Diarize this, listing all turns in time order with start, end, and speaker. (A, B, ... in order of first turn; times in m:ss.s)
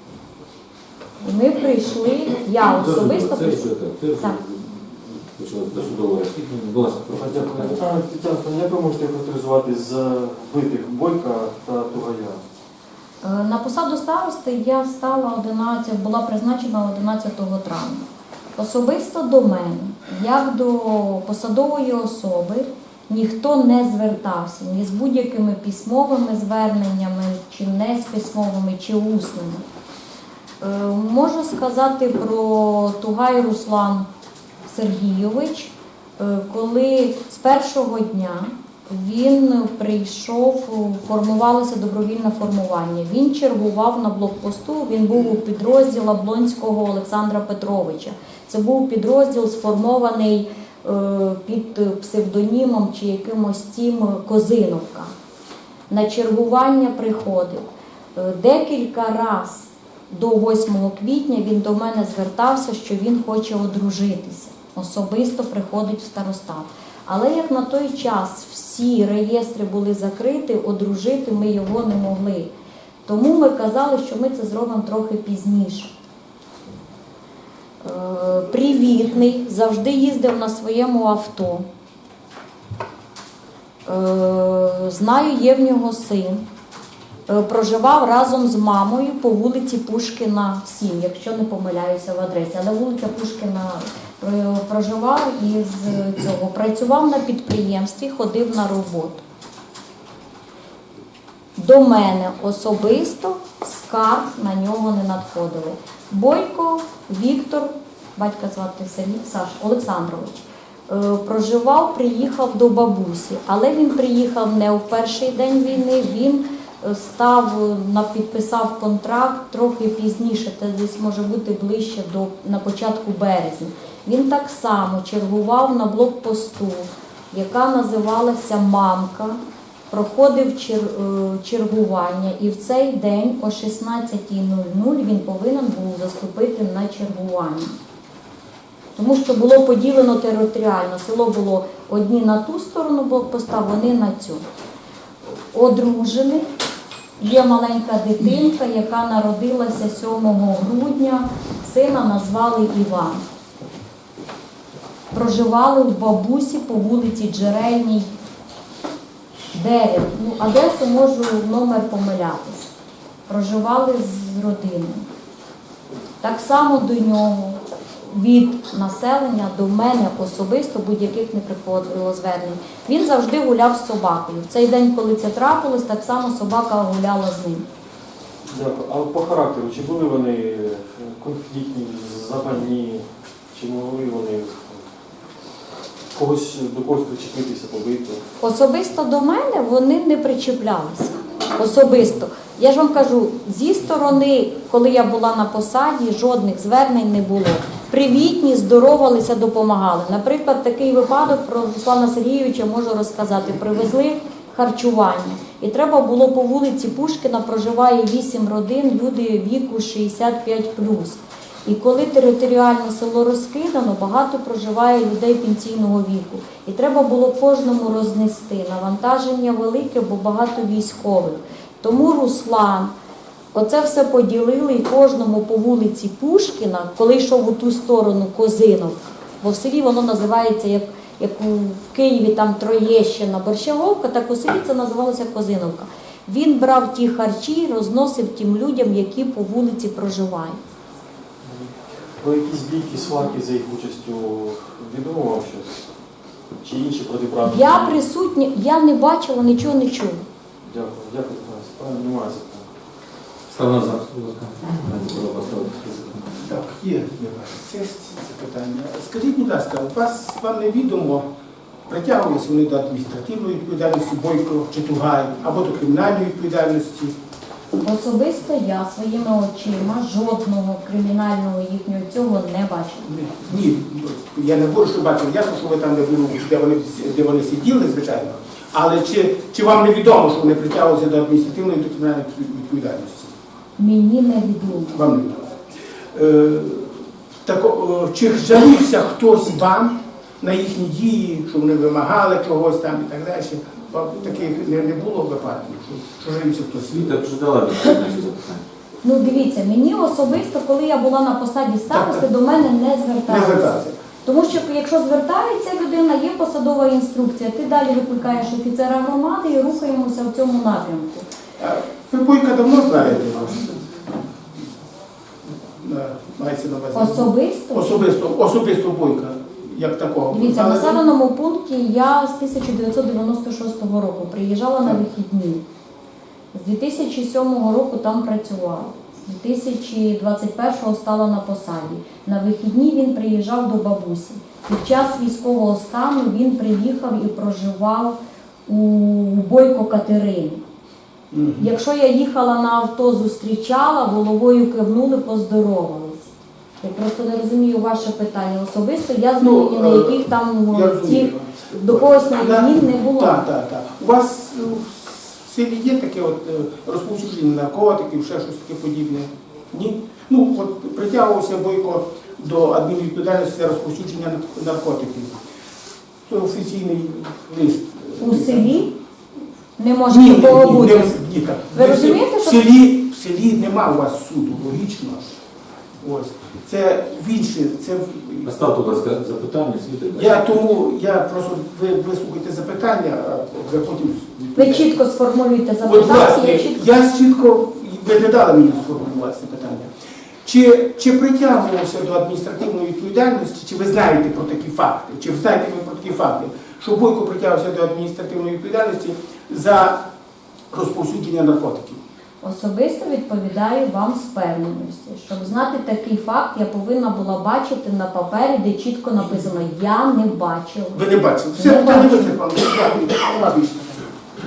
0:01.2-0:03.6 A
0:02.6-0:07.9 B
0:07.1-0:12.4 C
0:13.2-0:18.0 A
0:18.6-0:29.6 A
0:30.6-0:34.1 A
0:34.6-0:55.1 A
0:55.9-1:12.5 A
1:13.0-1:15.9 A
1:17.8-1:21.6 A
1:23.8-1:26.4 A
1:27.3-1:39.2 A
1:41.6-2:09.4 A
2:09.9-2:17.8 A
2:19.0-2:24.4 A
2:25.5-2:26.4 A
2:27.2-2:33.2 A
2:35.1-2:38.1 A
2:39.5-2:42.7 A
2:43.3-2:45.1 A
2:46.2-2:57.6 A
2:58.5-3:04.8 C
3:06.1-3:08.2 C
3:08.4-3:42.9 A
3:43.5-4:00.6 A
4:01.4-4:05.8 C
4:06.6-4:08.0 C
4:07.4-4:10.2 A
4:10.6-4:12.7 C
4:13.5-4:16.4 B
4:16.4-4:21.2 D
4:21.9-4:27.1 D
4:27.7-4:33.1 A
4:33.0-4:43.3 D
4:43.8-4:45.0 A
4:44.9-4:45.5 D
4:46.1-4:57.2 D
4:56.9-4:58.6 B
4:59.0-5:11.3 A
5:01.9-5:02.3 D
5:03.3-5:04.0 D
5:11.6-5:14.0 D
5:15.7-5:21.0 D
5:16.9-5:18.1 A
5:20.3-5:25.6 A
5:26.5-5:40.6 A
5:41.3-5:41.7 D
5:41.6-5:46.3 A
5:46.8-5:53.4 A
5:49.4-6:05.4 D
6:06.2-6:08.8 D
6:08.2-6:08.9 A
6:09.8-6:11.2 A
6:10.1-6:15.4 D
6:11.7-6:12.6 A
6:16.0-6:18.5 D
6:18.4-6:20.5 B
6:20.2-6:25.0 D
6:24.5-6:26.8 A
6:25.8-6:29.9 D
6:30.4-6:40.1 D
6:40.7-6:42.0 D
6:42.4-6:52.4 A
6:49.2-6:49.5 D
6:50.9-6:54.1 D